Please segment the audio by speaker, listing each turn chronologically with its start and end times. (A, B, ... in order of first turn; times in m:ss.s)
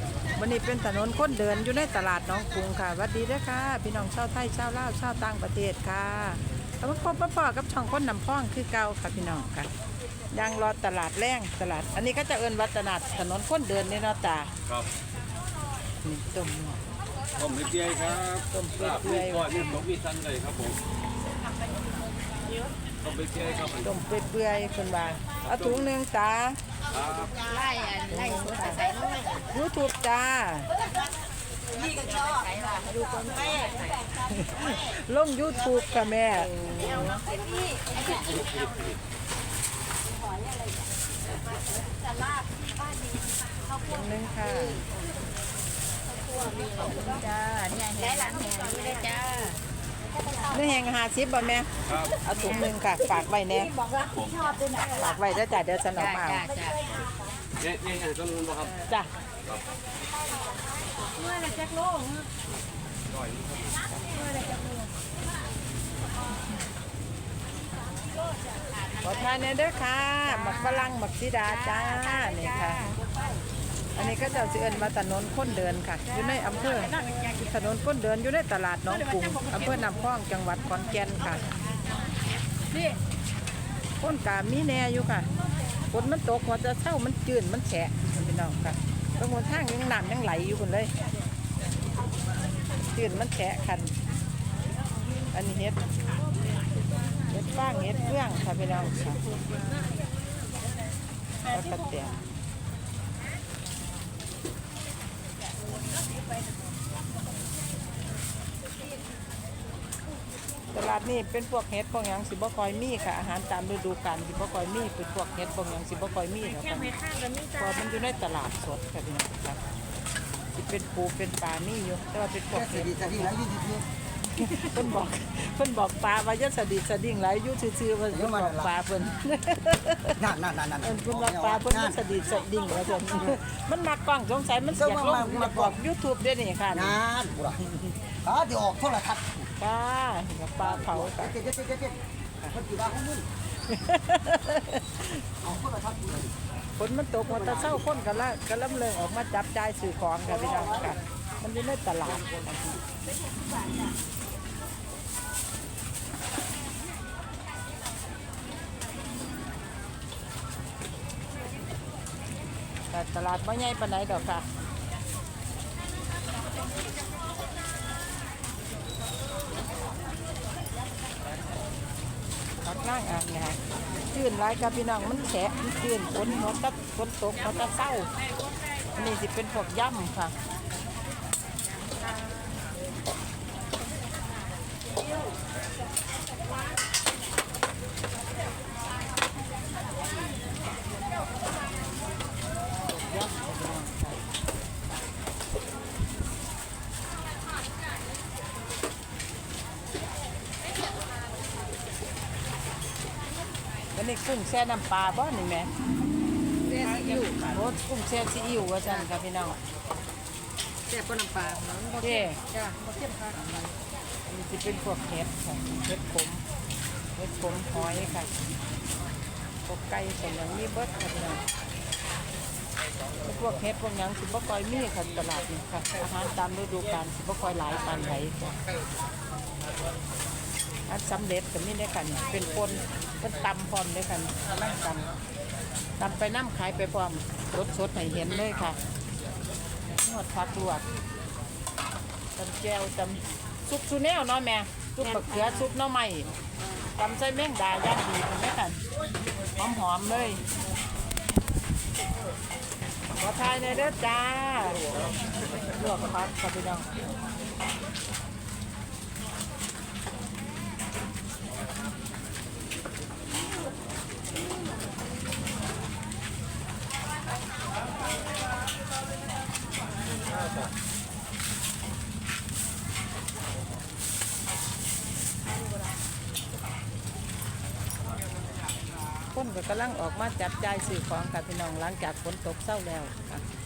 0:00.3-0:09.7 A
0:10.3-0:14.5 A
0:16.0-0:16.8 A
0:17.4-0:20.8 B
0:18.5-0:19.8 A
0:23.0-0:23.8 B
0:23.8-0:26.6 A
0:25.4-0:25.8 B
0:26.9-0:27.4 B
0:27.4-0:29.4 C
0:28.1-0:28.8 A
0:29.5-0:30.7 A
0:31.7-0:33.8 C
0:34.2-0:36.7 A
0:36.6-0:38.2 C
0:38.1-0:38.9 B
0:43.9-0:44.8 A
0:46.4-0:49.6 C
0:50.4-0:53.7 A
0:53.9-0:54.8 C
0:54.1-0:54.5 B
0:54.8-0:56.4 A
0:55.9-0:56.9 C
0:57.6-0:58.8 B
0:58.8-0:59.1 A
1:01.2-1:02.2 C
1:03.2-1:03.8 B
1:09.0-1:13.0 A
1:13.9-1:21.4 A
1:24.0-1:25.3 A
1:25.9-1:30.9 A
1:32.9-1:33.9 A
1:35.3-1:35.9 A
1:37.3-1:39.2 A
1:41.4-1:42.2 A
1:50.7-1:59.6 A
1:57.0-1:57.4 C
2:00.5-2:03.3 A
2:02.5-2:03.8 D
2:04.3-2:10.2 A
2:08.1-2:08.7 D
2:10.2-2:12.0 D
2:10.8-2:17.0 A
2:14.7-2:15.8 D
2:16.7-2:17.6 D
2:17.6-2:17.9 A
2:18.2-2:19.5 D
2:19.6-2:21.4 A
2:20.6-2:22.0 D
2:22.5-2:23.2 D
2:23.7-2:25.2 A
2:25.4-2:26.3 D
2:26.8-2:32.8 A
2:27.3-2:27.8 D
2:30.4-2:30.9 D
2:42.9-2:44.5 A
2:52.6-2:58.1 A
2:58.9-3:00.3 A
3:12.8-3:14.2 A
3:23.9-3:25.7 A
3:26.7-3:27.4 C
3:27.4-3:29.6 A
3:30.9-3:33.3 C
3:32.0-3:32.4 A
3:33.3-3:33.7 A
3:34.2-3:36.4 A
3:37.2-3:38.3 A
3:39.6-3:41.4 A
3:43.2-3:48.5 A
3:50.9-3:55.1 A
3:56.0-3:58.8 A
3:59.9-4:00.8 A
4:02.4-4:06.3 A
4:07.0-4:08.8 A
4:09.6-4:10.4 A
4:13.2-4:14.8 A
4:15.7-4:16.9 A
4:39.3-4:43.4 A